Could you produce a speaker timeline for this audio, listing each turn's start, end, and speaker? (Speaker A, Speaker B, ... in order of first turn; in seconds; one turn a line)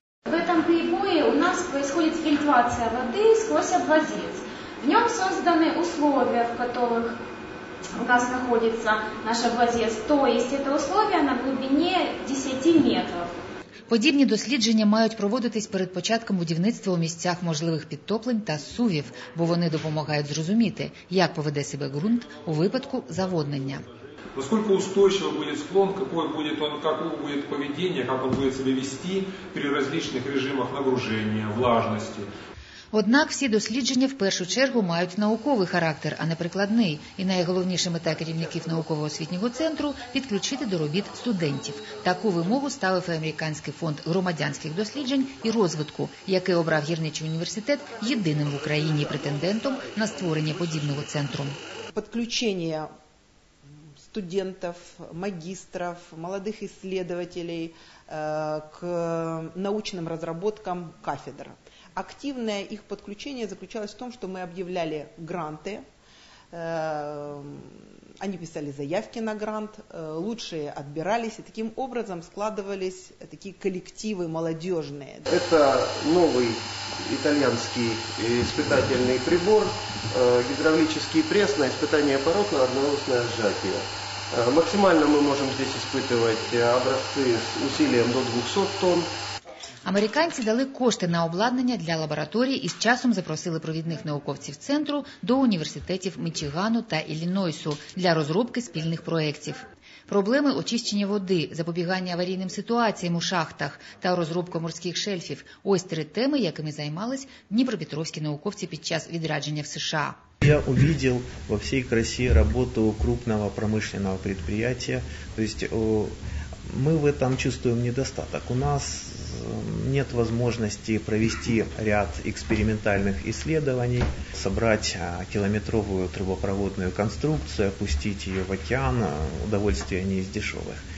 Speaker A: 0.3-7.2
Speaker A: 8.0-13.3
Speaker B: 13.9-23.9
Speaker C: 24.4-32.3
Speaker B: 32.9-51.6
Speaker D: 52.0-52.9
Speaker D: 54.1-65.8
Speaker D: 66.5-75.3
Speaker E: 75.3-89.1
Speaker B: 89.8-110.2
Speaker F: 110.4-116.2
Speaker F: 116.7-130.8